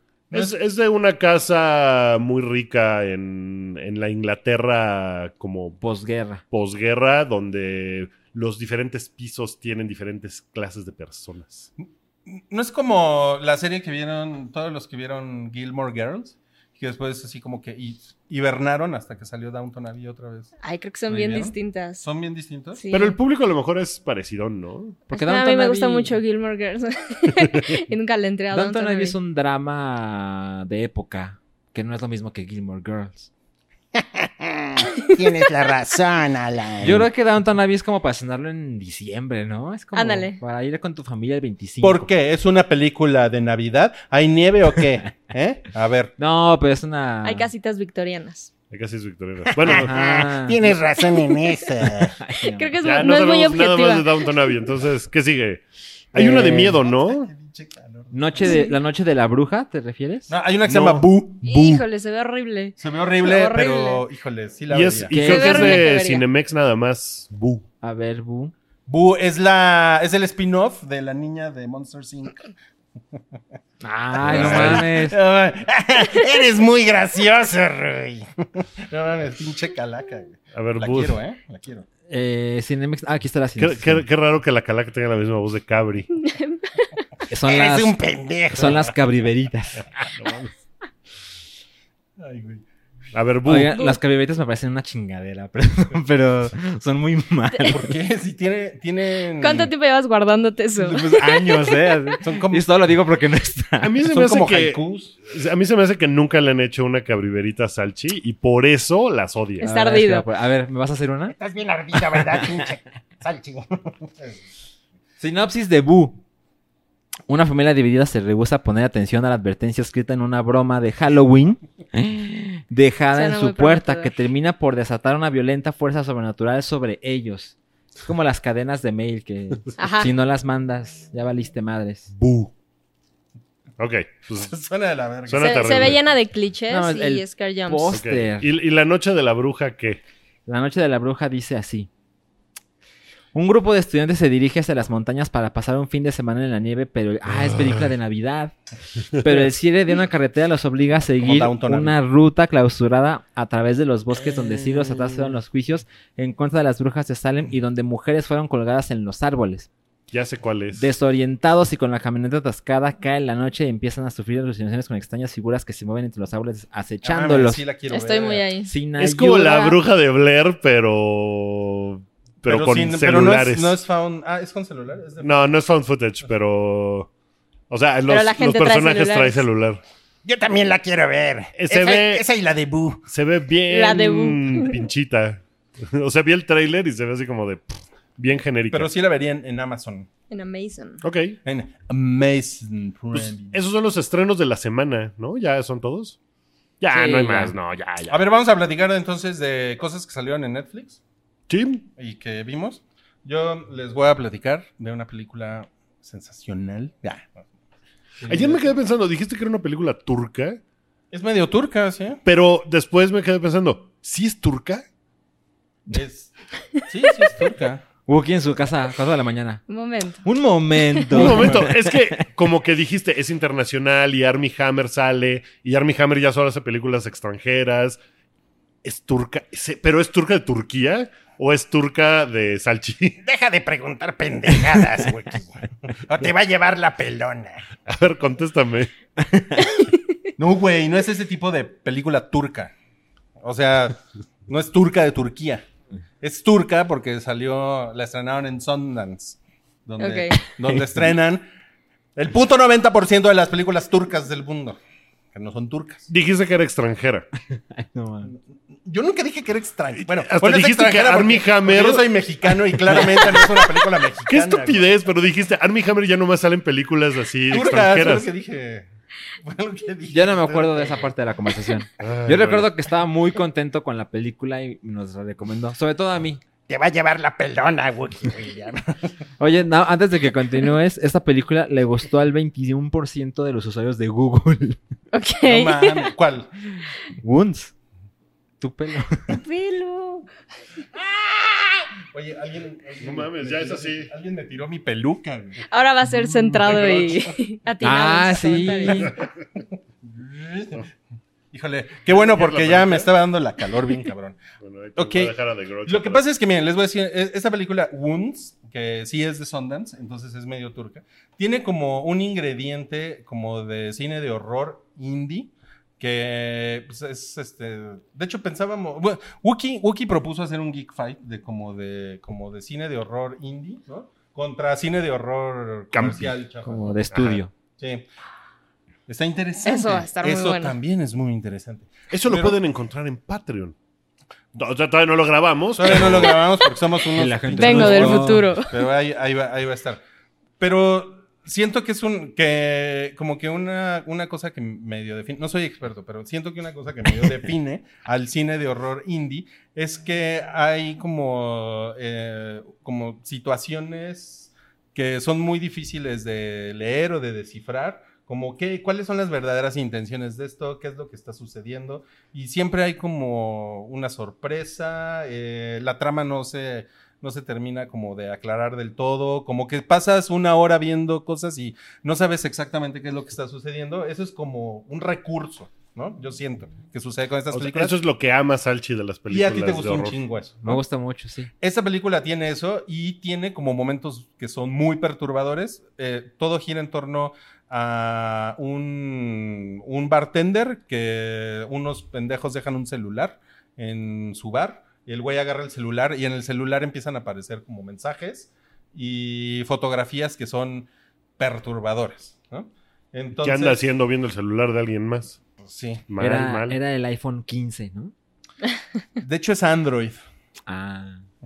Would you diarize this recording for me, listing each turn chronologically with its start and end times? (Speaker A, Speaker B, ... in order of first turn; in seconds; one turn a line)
Speaker A: 0.3-5.8
Speaker B: 5.8-6.4
Speaker A: 6.5-11.7
Speaker C: 11.8-20.5
Speaker D: 20.6-22.0
Speaker C: 21.1-22.8
Speaker D: 22.8-23.2
Speaker A: 22.9-25.0
Speaker B: 25.1-26.2
Speaker D: 25.1-29.1
Speaker B: 28.5-33.3
Speaker E: 33.9-37.1
Speaker B: 36.8-42.1
Speaker D: 39.9-40.4
Speaker C: 41.8-46.1
Speaker B: 46.2-47.5
Speaker D: 47.2-48.5
Speaker A: 48.7-50.1
Speaker E: 49.5-52.1
Speaker B: 49.6-50.6
Speaker B: 52.1-52.7
Speaker D: 52.4-54.4
Speaker A: 52.8-57.3
Speaker B: 56.1-56.8
Speaker C: 56.4-58.6
Speaker B: 58.1-61.0
Speaker D: 58.4-58.7
Speaker C: 60.3-61.8
Speaker D: 61.4-64.0
Speaker C: 62.8-65.1
Speaker A: 64.7-67.6
Speaker B: 65.1-65.8
Speaker D: 65.1-66.2
Speaker B: 67.8-68.5
Speaker C: 68.9-72.5
Speaker B: 73.8-75.2
Speaker A: 74.2-74.8
Speaker C: 74.2-76.2
Speaker E: 75.8-78.2
Speaker C: 78.9-81.8
Speaker A: 80.5-81.2
Speaker B: 82.1-84.0
Speaker A: 83.6-86.1
Speaker D: 86.2-86.7
Speaker B: 87.3-88.0
Speaker E: 87.4-88.9
Speaker B: 88.5-89.9
Speaker A: 90.1-90.5
Speaker C: 92.2-92.6
Speaker A: 93.1-93.7
Speaker B: 93.4-97.8
Speaker C: 97.7-99.7
Speaker D: 99.4-101.8
Speaker B: 100.8-103.9
Speaker C: 102.2-102.7
Speaker A: 103.8-109.7
Speaker C: 104.1-105.1
Speaker D: 109.6-110.2
Speaker B: 109.6-111.3
Speaker E: 111.3-113.8
Speaker B: 111.9-112.4
Speaker B: 115.2-116.2
Speaker B: 117.3-132.1
Speaker D: 123.1-124.1
Speaker D: 129.8-130.1
Speaker A: 132.1-132.5
Speaker A: 133.8-134.5
Speaker C: 134.4-135.9
Speaker A: 135.3-136.0
Speaker D: 135.4-138.0
Speaker B: 136.7-138.5
Speaker A: 137.9-140.0
Speaker B: 140.5-141.9
Speaker B: 143.3-148.6
Speaker A: 147.3-147.9
Speaker B: 149.1-159.7
Speaker C: 151.2-152.0
Speaker A: 160.1-160.9
Speaker B: 160.7-167.6
Speaker C: 167.0-168.4
Speaker D: 167.9-168.7
Speaker B: 168.6-169.8
Speaker A: 169.0-173.8
Speaker C: 172.4-175.5
Speaker A: 175.2-177.1
Speaker A: 177.7-179.8
Speaker D: 178.1-179.4
Speaker E: 180.2-183.0
Speaker A: 181.5-182.2
Speaker A: 183.1-188.9
Speaker D: 183.7-184.8
Speaker C: 188.7-190.1
Speaker D: 190.3-191.0
Speaker A: 191.0-191.4
Speaker C: 191.4-193.6
Speaker A: 193.1-196.2
Speaker A: 196.8-198.2
Speaker B: 196.9-197.5
Speaker C: 198.1-201.0
Speaker A: 201.5-201.8
Speaker C: 201.9-207.4
Speaker C: 208.2-208.7
Speaker A: 208.3-210.6
Speaker C: 211.1-212.2
Speaker A: 212.2-214.8
Speaker C: 215.9-216.3
Speaker C: 216.8-217.8
Speaker B: 218.1-219.6
Speaker D: 219.7-220.2
Speaker B: 220.2-222.2
Speaker A: 221.1-228.0
Speaker A: 228.8-233.2
Speaker E: 233.2-237.6
Speaker A: 237.8-238.9
Speaker B: 239.3-239.7
Speaker C: 240.4-242.7
Speaker C: 243.4-245.6
Speaker C: 246.2-251.5
Speaker D: 250.0-250.4
Speaker C: 252.2-254.8
Speaker C: 255.3-256.1
Speaker A: 256.1-257.3
Speaker B: 257.8-258.3
Speaker C: 258.8-264.8
Speaker A: 259.9-263.5
Speaker A: 264.3-268.3
Speaker C: 267.5-268.9
Speaker C: 269.4-271.1
Speaker B: 270.1-276.4
Speaker A: 272.0-272.7
Speaker E: 276.7-278.8
Speaker B: 279.4-284.8
Speaker D: 285.1-286.1
Speaker C: 285.4-286.5
Speaker B: 287.2-287.7
Speaker B: 288.6-289.2
Speaker D: 289.4-290.2
Speaker C: 292.0-295.6
Speaker A: 293.0-294.1
Speaker D: 295.7-299.1
Speaker A: 296.6-297.1
Speaker B: 297.8-299.1
Speaker C: 300.0-300.9
Speaker C: 301.5-304.4
Speaker A: 302.1-303.1
Speaker A: 304.6-306.2
Speaker C: 304.9-305.3
Speaker C: 305.8-327.0
Speaker A: 325.9-326.3
Speaker B: 326.6-327.5
Speaker A: 327.1-327.4
Speaker C: 327.8-328.1
Speaker C: 329.1-332.6
Speaker D: 329.6-330.8
Speaker A: 332.1-333.8
Speaker A: 334.5-336.4
Speaker C: 335.7-340.0
Speaker B: 337.1-338.5
Speaker D: 337.6-338.8
Speaker C: 340.6-377.9
Speaker A: 377.5-380.2
Speaker C: 379.3-380.8
Speaker B: 380.6-381.5
Speaker C: 381.6-403.8
Speaker A: 403.4-405.4
Speaker C: 405.6-406.0
Speaker A: 406.1-406.8
Speaker B: 406.2-408.1
Speaker C: 409.2-410.2
Speaker B: 410.7-411.2